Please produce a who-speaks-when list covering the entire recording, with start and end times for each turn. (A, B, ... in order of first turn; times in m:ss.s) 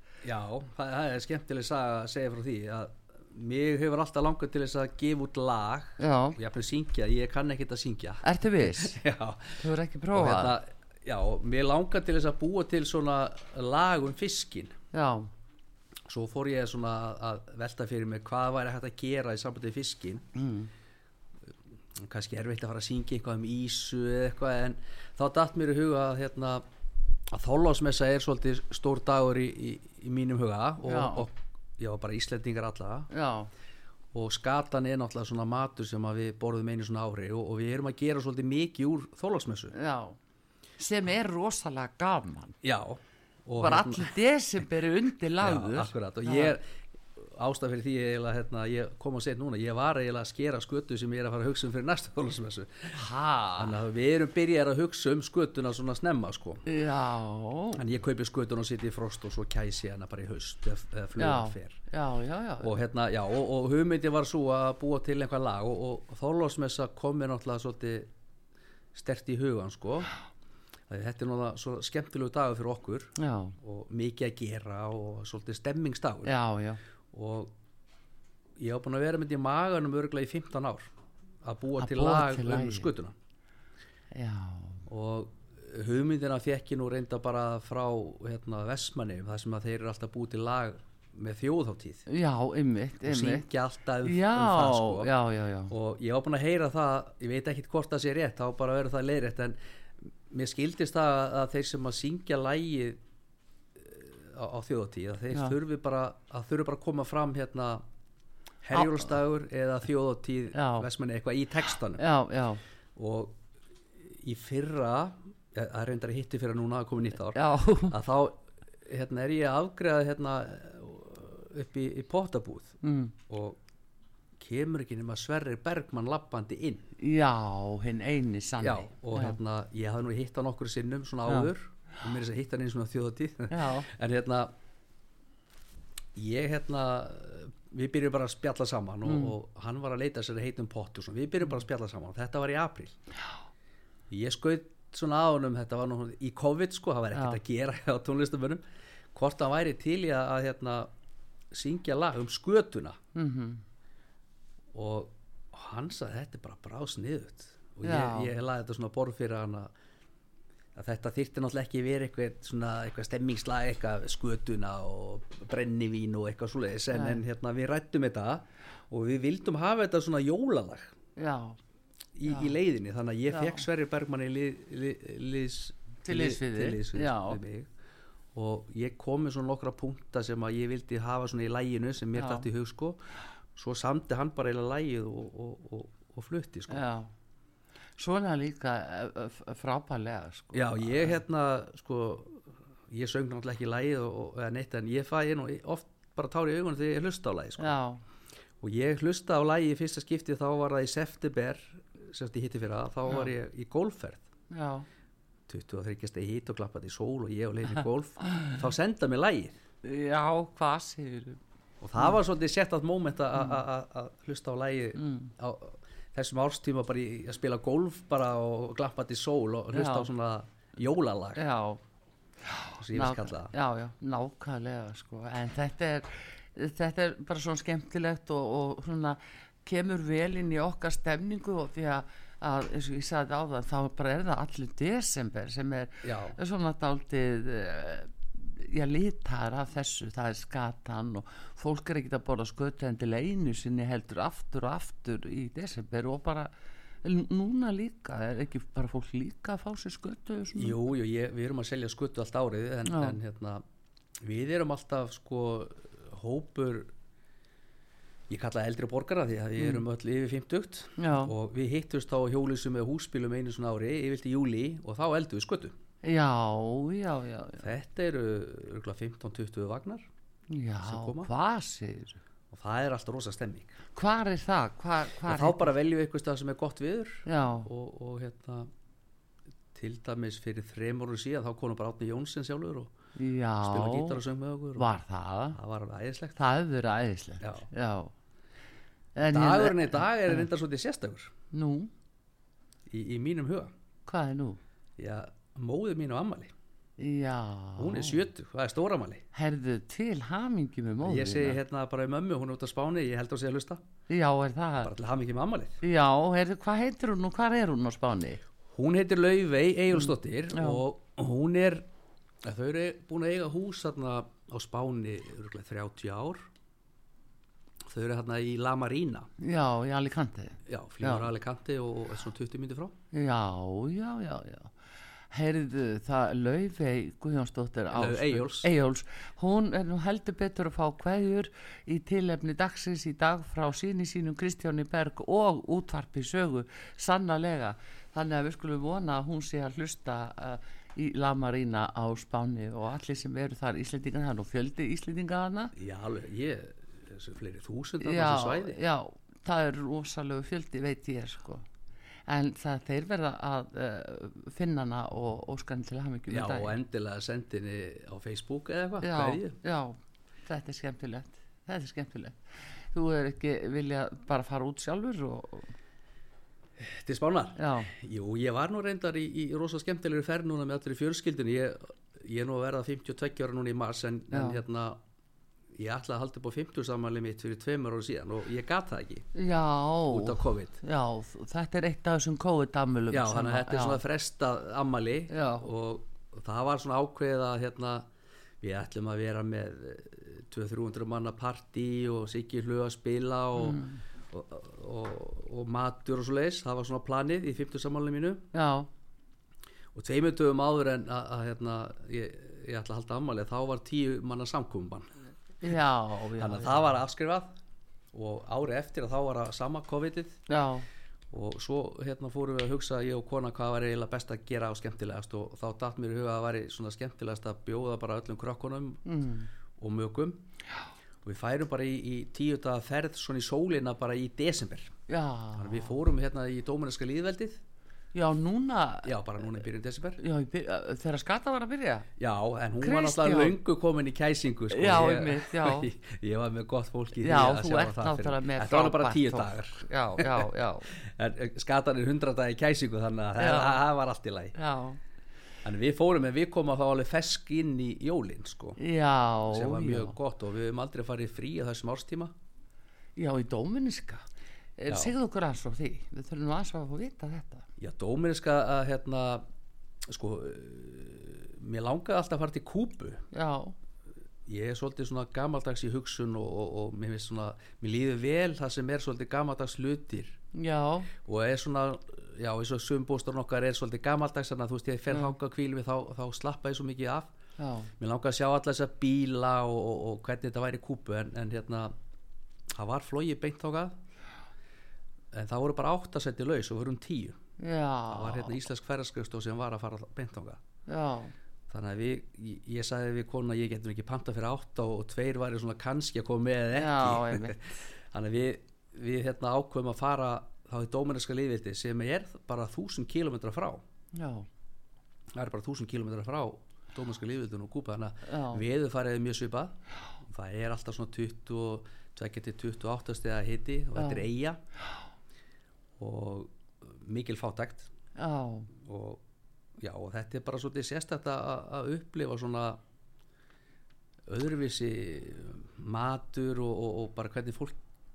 0:00.2-0:09.6 A
0:06.0-0:06.4 B
0:08.2-0:09.0 B
0:09.6-0:10.6 B
0:10.1-0:14.8 A
0:14.9-0:15.3 B
0:16.1-0:20.3 A
0:20.4-0:20.7 B
0:22.0-0:26.6 A
0:27.3-0:33.1 A
0:30.8-0:31.3 B
0:33.1-0:33.5 B
0:34.1-0:39.8 A
0:39.7-0:40.2 B
0:40.8-0:42.6 B
0:42.6-0:44.1 A
0:43.6-0:46.6 B
0:45.4-0:53.0 A
0:52.9-0:53.8 B
0:53.6-0:56.7 A
0:56.7-0:57.8 B
0:57.8-1:01.8 A
1:01.2-1:02.8 B
1:02.6-1:08.1 A
1:08.9-1:10.1 A
1:10.9-1:16.4 A
1:13.2-1:13.6 B
1:16.2-1:16.8 B
1:17.1-1:17.5 A
1:18.6-1:20.9 A
1:21.4-1:23.2 A
1:21.8-1:22.9 B
1:24.1-1:24.8 B
1:24.9-1:32.0 A
1:32.1-1:33.5 B
1:33.0-1:35.1 A
1:34.0-1:35.7 B
1:35.7-1:43.0 A
1:43.8-1:47.8 A
1:48.6-1:52.0 A
1:48.8-1:49.1 B
1:50.5-1:50.9 B
1:52.0-1:52.6 B
1:53.0-1:53.4 A
1:54.0-2:03.6 A
1:57.3-1:58.0 B
2:02.8-2:03.2 B
2:04.4-2:06.9 A
2:07.0-2:09.4 B
2:08.6-2:14.5 A
2:11.3-2:11.5 B
2:13.5-2:13.9 B
2:16.2-2:23.0 A
2:19.0-2:19.3 B
2:24.1-2:28.6 A
2:27.1-2:27.4 B
2:29.1-2:30.9 A
2:31.5-2:33.0 A
2:33.2-2:33.6 B
2:34.7-2:39.7 A
2:37.8-2:38.4 B
2:40.8-2:50.9 A
2:46.9-2:47.2 B
2:51.2-2:51.6 B
2:52.2-2:57.7 A
2:52.3-2:52.5 B
2:53.3-2:53.6 B
2:56.0-2:57.4 B
2:58.3-3:03.0 A
3:02.2-3:02.5 B
3:03.6-3:06.8 A
3:06.7-3:07.1 B
3:08.0-3:11.2 B
3:10.5-3:17.8 A
3:17.6-3:18.0 B
3:18.6-3:24.3 A
3:24.5-3:24.9 B
3:25.5-3:29.6 A
3:29.8-3:31.4 B
3:31.8-3:41.4 A
3:35.0-3:35.3 B
3:39.7-3:40.1 B
3:41.4-3:41.8 B
3:42.4-4:06.5 B
3:42.8-3:43.5 A
3:56.0-3:56.4 A
4:07.0-4:10.8 B
4:10.6-4:13.6 A
4:12.9-4:13.2 B
4:14.2-4:16.9 A
4:18.3-4:25.8 A
4:19.6-4:19.8 B
4:21.0-4:21.3 B
4:26.0-4:27.7 B
4:27.6-4:30.1 A
4:30.5-4:32.2 B
4:30.8-4:31.3 A
4:32.5-4:33.8 A
4:34.0-4:35.7 B
4:35.3-4:38.7 A
4:37.3-4:37.7 B
4:39.7-4:42.9 A
4:43.2-4:44.2 B
4:43.6-4:44.9 A
4:44.8-4:45.6 B
4:45.6-4:46.4 A
4:46.4-4:48.1 B
4:47.4-4:47.7 A
4:49.2-4:50.5 B
4:49.3-4:51.3 A
4:51.5-4:51.9 B
4:52.9-4:53.7 A
4:54.1-4:54.6 B
4:55.0-4:56.5 A
4:57.0-4:58.2 B
4:57.8-4:59.2 A
4:59.3-5:01.6 B
5:01.0-5:03.8 A
5:04.1-5:04.9 B
5:04.8-5:05.8 A
5:05.8-5:08.4 B
5:08.7-5:11.9 A
5:10.0-5:10.8 B
5:12.4-5:16.4 A
5:17.9-5:19.3 A
5:19.4-5:21.3 B
5:20.7-5:23.0 A
5:23.1-5:24.7 B
5:25.3-5:45.7 B
5:27.9-5:28.7 A
5:45.8-5:48.8 A
5:48.0-5:51.6 B
5:52.3-5:56.8 B
5:56.3-5:59.6 A
5:59.0-6:02.4 B
6:02.9-6:05.7 B
6:06.8-6:15.0 A
6:07.6-6:07.9 B
6:14.3-6:14.6 B
6:15.7-6:19.3 A
6:19.3-6:24.0 B
6:20.1-6:20.8 A
6:23.1-6:28.1 A
6:25.3-6:25.6 B
6:28.6-6:38.4 A
6:33.6-6:34.0 B
6:38.5-6:38.9 B
6:39.9-6:45.1 A
6:45.6-6:46.9 B
6:46.4-6:47.5 A
6:48.1-6:50.4 A
6:50.5-6:50.9 B
6:51.3-6:59.0 A
6:59.0-6:59.5 B
6:59.8-7:00.4 A
7:01.2-7:04.9 A
7:05.1-7:06.0 B
7:05.6-7:07.6 A
7:08.1-7:09.2 B
7:09.0-7:10.2 A
7:10.2-7:12.1 B
7:12.2-7:24.6 A
7:12.8-7:13.6 B
7:14.7-7:15.9 B
7:17.2-7:21.0 B
7:23.4-7:23.8 B
7:24.6-7:25.0 B
7:25.6-7:28.8 A
7:28.8-7:30.2 B
7:29.5-7:32.3 A
7:33.2-7:34.2 B
7:34.8-7:37.7 B
7:34.9-7:35.1 A
7:37.8-7:39.5 A
7:40.0-7:43.2 A
7:43.3-7:43.7 B
7:44.5-7:50.4 A
7:50.5-7:51.1 B
7:51.2-7:57.3 A
7:57.6-7:57.9 B
7:58.0-8:01.9 A
8:02.7-8:04.0 A
8:05.3-8:07.4 A
8:07.6-8:08.6 B
8:08.1-8:10.6 A
8:10.9-8:11.3 B
8:11.7-8:23.8 A
8:16.7-8:17.6 B
8:24.1-8:24.5 B
8:25.3-8:34.6 A
8:28.2-8:28.6 B
8:34.0-8:34.3 B
8:36.0-8:37.9 A
8:38.2-8:38.7 B
8:38.8-8:39.2 A
8:39.8-8:42.8 A
8:44.3-8:47.8 A